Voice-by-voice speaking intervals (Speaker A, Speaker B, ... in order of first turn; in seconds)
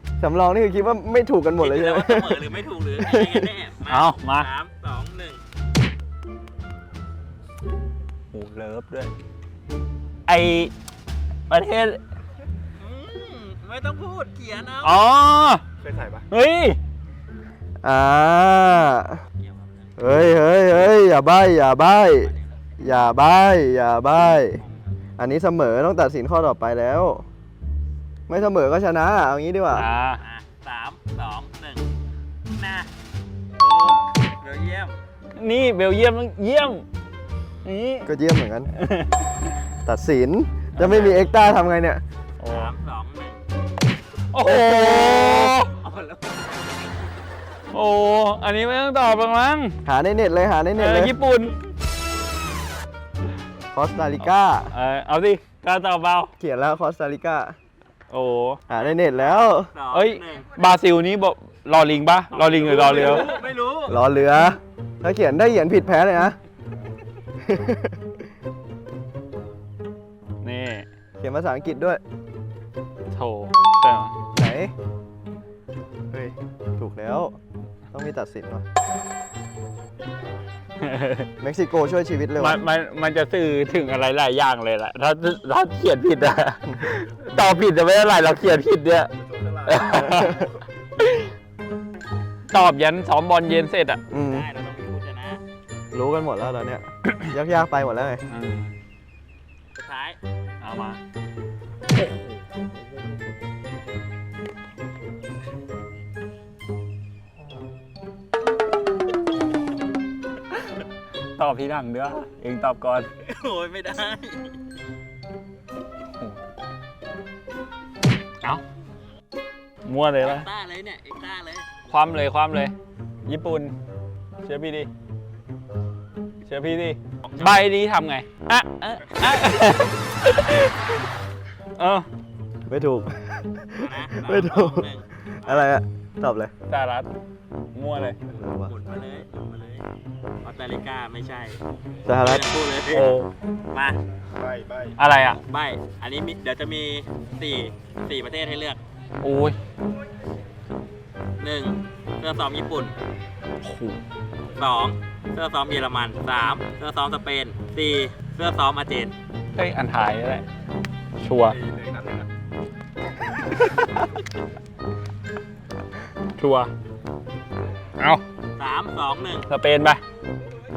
Speaker A: 0.2-2.4, 3.0-3.4, 17.8-19.2, 20.0-24.6, 25.2-27.2, 28.3-29.9, 38.0-38.7, 39.8-42.0, 49.8-51.1, 53.7-54.7, 56.4-57.5, 58.7-59.7, 63.9-66.4, 67.5-68.0, 71.2-72.0, 74.3-74.7, 76.1-77.4, 77.9-78.6, 81.4-82.6, 94.1-94.5, 95.9-98.2, 132.7-134.9, 135.4-136.5, 138.3-138.7, 142.1-142.4
Speaker B: 1.6-5.4, 12.8-15.0, 19.3-19.9, 22.0-22.7, 24.6-24.9, 30.2-31.9, 32.5-32.9, 33.6-35.0, 42.4-43.4, 44.4-46.9, 58.7-60.5, 62.3-63.9, 94.2-95.4, 99.7-100.2, 113.2-114.6, 120.2-121.8, 127.2-127.7, 133.8-135.7, 138.6-139.8, 140.4-141.6, 142.2-143.2, 143.7-144.0, 145.4-148.8, 151.4-152.9, 154.5-159.1, 168.6-169.5
Speaker C: 3.9-4.5, 8.3-9.1, 10.3-10.7, 11.5-12.0, 14.8-15.6, 16.3-16.8, 29.7-30.2, 35.4-36.8, 37.6-38.1, 38.8-39.1, 40.8-41.1, 42.4-42.7, 44.3-45.7, 47.7-49.8, 50.8-51.5, 54.7-56.3, 58.1-58.6, 59.9-63.3, 70.4-70.8, 73.1-74.2, 80.8-81.3, 82.4-89.1, 89.7-90.4, 92.5-94.0, 98.3-98.7, 100.6-101.0, 101.9-103.0, 111.4-113.1, 119.8-120.5, 121.9-122.7, 123.2-123.7, 124.4-124.9, 126.4-130.7, 131.8-132.1, 136.7-137.1, 137.7-138.2, 142.9-143.3, 145.0-145.4, 149.2-149.6, 153.6-154.0, 159.6-160.4, 161.2-161.6, 166.4-166.7, 169.5-170.0
Speaker D: 15.8-16.3, 89.1-90.5, 144.4-144.9, 161.5-162.3